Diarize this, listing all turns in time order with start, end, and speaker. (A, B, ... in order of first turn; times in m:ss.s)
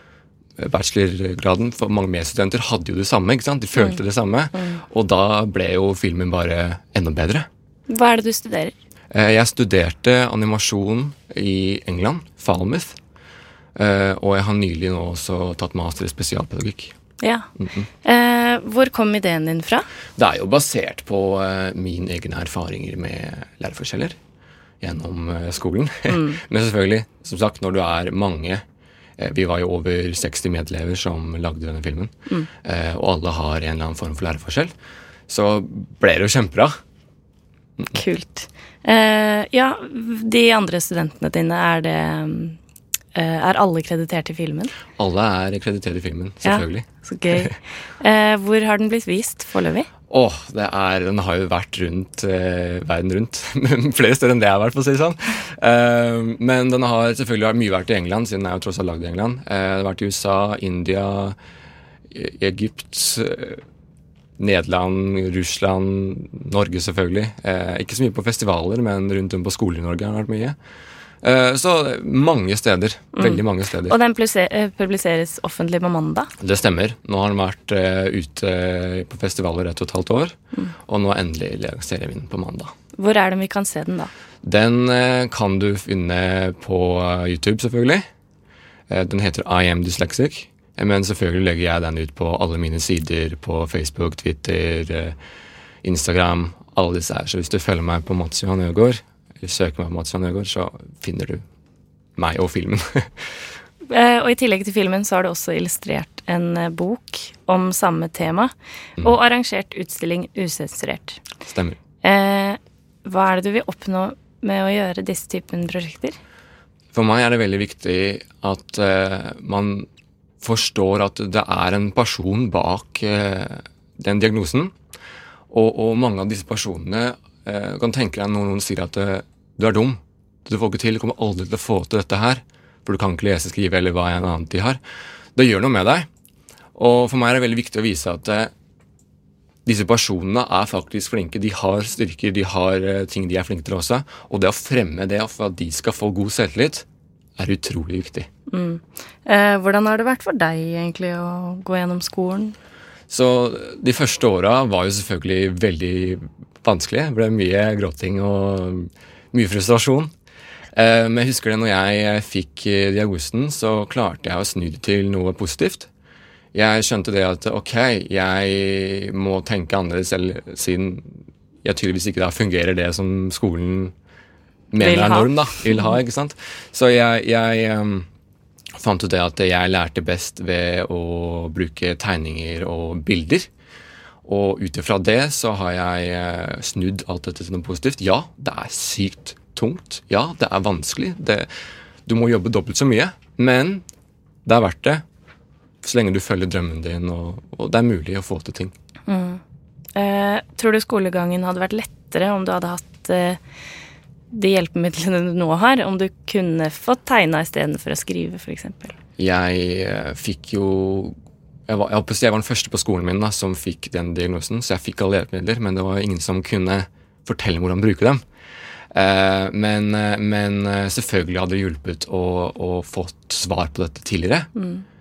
0:00.6-0:07.5 A
0:03.8-0:04.0 B
0:04.5-0:04.8 B
0:07.9-0:08.8 B
0:09.1-0:13.0 A
0:13.8-0:16.9 A
0:17.2-0:17.5 B
0:17.6-0:17.9 A
0:18.0-0:19.9 B
0:20.2-0:24.2 A
0:24.8-0:28.6 A
0:26.1-0:26.4 B
0:29.2-0:32.1 A
0:32.6-0:34.7 A
0:35.3-0:36.8 A
0:37.9-0:42.6 B
0:43.1-0:44.7 B
0:45.0-0:47.5 A
0:46.4-0:49.9 B
0:50.1-1:01.4 A
1:02.1-1:03.6 A
1:04.4-1:10.6 A
1:11.2-1:14.0 A
1:13.2-1:16.3 B
1:16.4-1:22.7 A
1:23.0-1:24.1 B
1:24.4-1:28.1 A
1:28.9-1:35.2 A
1:35.8-1:41.4 A
1:42.2-1:43.2 A
1:43.9-1:51.2 B
1:51.4-1:51.8 A
1:52.0-1:56.2 B
1:56.9-1:59.9 A
2:00.4-2:04.8 A
2:05.5-2:14.8 A
2:15.4-2:16.1 A
2:16.8-2:18.5 A
2:19.7-2:26.8 A
2:27.4-2:28.3 A
2:28.5-2:32.6 B
2:33.1-2:40.1 A
2:40.7-2:45.9 A
2:46.5-2:53.9 A
2:54.7-2:58.1 A
2:54.8-2:55.9 B
2:58.8-3:03.5 A
3:04.2-3:11.5 A
3:12.1-3:13.8 A
3:14.4-3:15.0 A
3:15.8-3:18.7 A
3:19.1-3:19.4 B
3:20.0-3:23.4 B
3:24.3-3:29.0 B
3:29.2-3:31.2 A
3:31.7-3:38.2 A
3:38.9-3:44.5 A
3:44.6-3:44.8 B